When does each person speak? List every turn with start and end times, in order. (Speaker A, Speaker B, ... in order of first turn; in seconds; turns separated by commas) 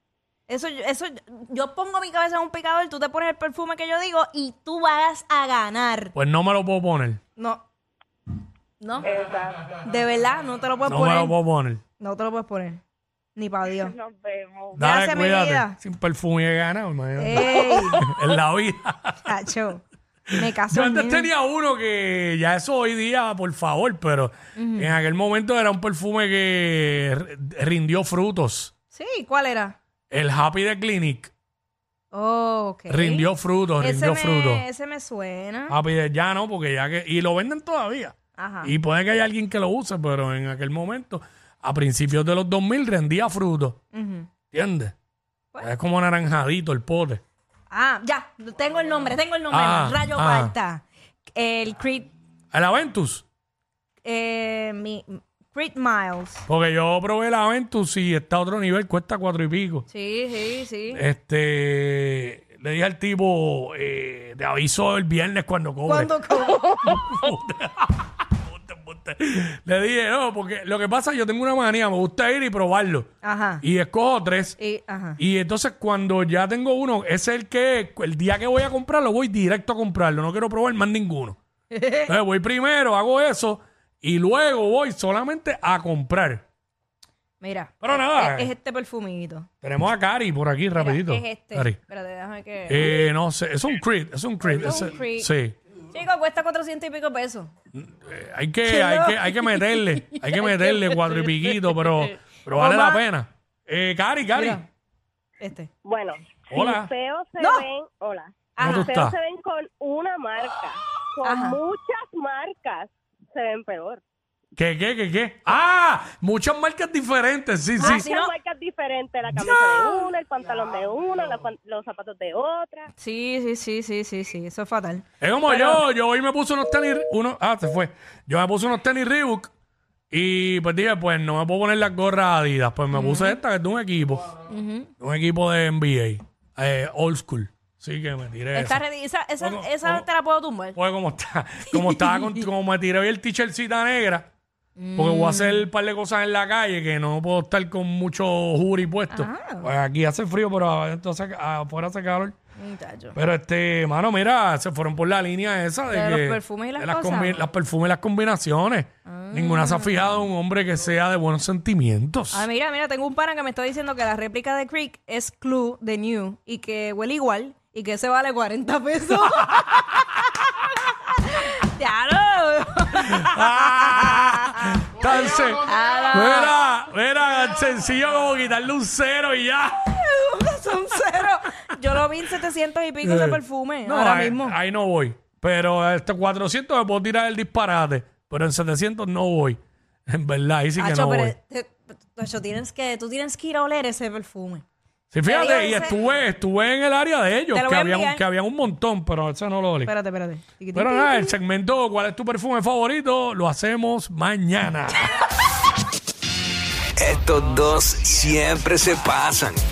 Speaker A: 0.5-6.2, Speaker B: 6.2-7.2, Speaker A: 7.4-7.7, Speaker A: 8.8-9.2, Speaker C: 9.0-9.8, Speaker A: 9.8-11.4, Speaker B: 10.9-11.8, Speaker A: 12.0-12.8, Speaker A: 13.4-13.9, Speaker C: 13.7-14.8, Speaker B: 14.8-19.3, Speaker A: 14.8-15.8, Speaker A: 17.2-18.2, Speaker A: 19.3-21.3, Speaker B: 20.4-28.7, Speaker A: 24.6-24.9, Speaker A: 28.9-29.8, Speaker B: 30.1-31.3, Speaker A: 32.1-33.3, Speaker B: 32.9-34.6, Speaker A: 33.8-35.8, Speaker B: 35.7-43.8, Speaker A: 38.4-38.7, Speaker A: 43.9-44.4, Speaker B: 44.5-44.9, Speaker B: 45.6-47.2, Speaker A: 47.7-52.1, Speaker B: 49.5-50.5, Speaker B: 52.5-53.2, Speaker A: 54.0-56.5, Speaker B: 56.5-59.8, Speaker A: 59.9-61.0, Speaker B: 60.9-73.1, Speaker A: 65.9-67.0, Speaker A: 73.2-73.6, Speaker B: 73.6-74.6, Speaker A: 74.6-75.2, Speaker B: 75.2-81.4, Speaker A: 81.7-82.1, Speaker B: 82.1-86.4, Speaker A: 87.4-89.5, Speaker B: 87.8-88.5, Speaker B: 89.6-91.8, Speaker A: 90.8-93.1, Speaker B: 92.7-95.6, Speaker A: 94.4-95.3, Speaker A: 95.9-97.5, Speaker B: 97.7-104.6, Speaker A: 98.7-101.9, Speaker A: 102.5-103.0, Speaker A: 104.3-104.7, Speaker A: 105.4-105.7, Speaker D: 105.8-114.0, Speaker B: 106.5-106.9, Speaker A: 107.4-107.7, Speaker A: 108.6-108.9, Speaker B: 108.6-109.2, Speaker A: 111.2-111.6, Speaker B: 114.6-118.0, Speaker A: 117.8-118.3, Speaker D: 117.8-122.9, Speaker B: 119.3-120.1, Speaker A: 123.0-125.8, Speaker B: 125.2-129.5, Speaker B: 130.1-134.3, Speaker A: 132.9-133.4, Speaker A: 134.5-134.9, Speaker B: 135.0-138.8, Speaker A: 138.6-140.8, Speaker B: 139.4-140.1, Speaker B: 140.8-144.3, Speaker A: 141.7-142.4, Speaker A: 144.8-145.7, Speaker B: 144.9-152.3, Speaker A: 149.1-149.7, Speaker A: 152.6-153.2, Speaker B: 153.2-162.4, Speaker A: 155.9-157.4, Speaker A: 159.1-160.2, Speaker A: 162.3-176.6, Speaker B: 169.3-169.7, Speaker B: 173.2-179.9, Speaker A: 179.9-184.6, Speaker B: 183.0-191.3, Speaker A: 190.8-194.6, Speaker B: 195.1-199.9, Speaker A: 195.2-196.0, Speaker A: 197.5-198.2, Speaker A: 199.8-201.3, Speaker B: 200.8-205.1, Speaker E: 207.0-209.5